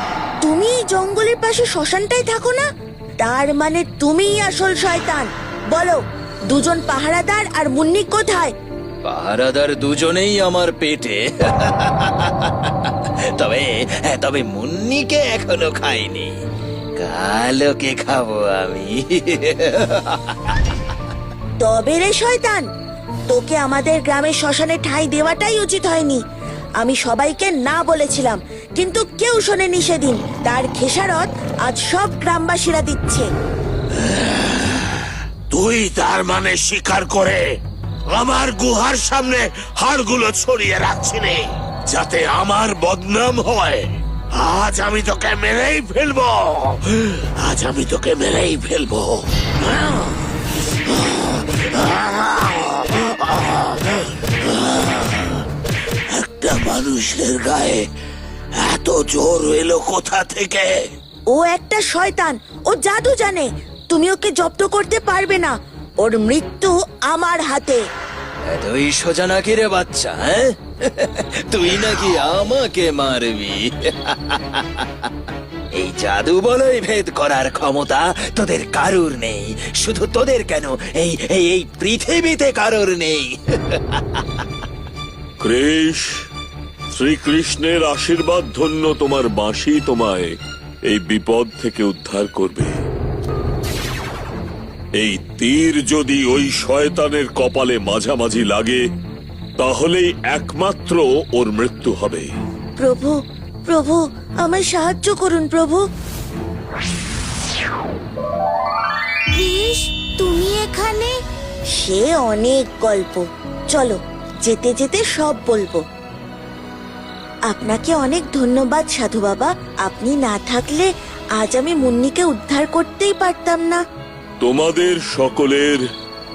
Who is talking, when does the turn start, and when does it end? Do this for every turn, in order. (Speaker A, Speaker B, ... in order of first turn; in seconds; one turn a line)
Speaker A: 0.4-2.6
Speaker A: 3.2-8.5
Speaker B: 9.0-16.3
Speaker B: 17.0-20.3
Speaker A: 21.6-22.6
Speaker A: 23.3-26.2
Speaker A: 26.8-33.3
Speaker C: 35.5-37.4
Speaker C: 38.1-43.8
Speaker C: 44.4-46.8
Speaker C: 47.4-49.9
Speaker C: 51.8-52.5
Speaker C: 56.2-57.8
Speaker C: 58.7-60.7
Speaker A: 61.3-67.8
Speaker B: 68.5-74.8
Speaker B: 75.7-84.2
Speaker D: 85.4-86.1
Speaker D: 86.9-92.8
Speaker D: 95.0-98.8
Speaker D: 99.6-102.3
Speaker A: 102.8-105.8
Speaker A: 109.3-111.1
Speaker A: 111.8-115.8
Speaker A: 117.5-123.8
Speaker D: 124.4-125.8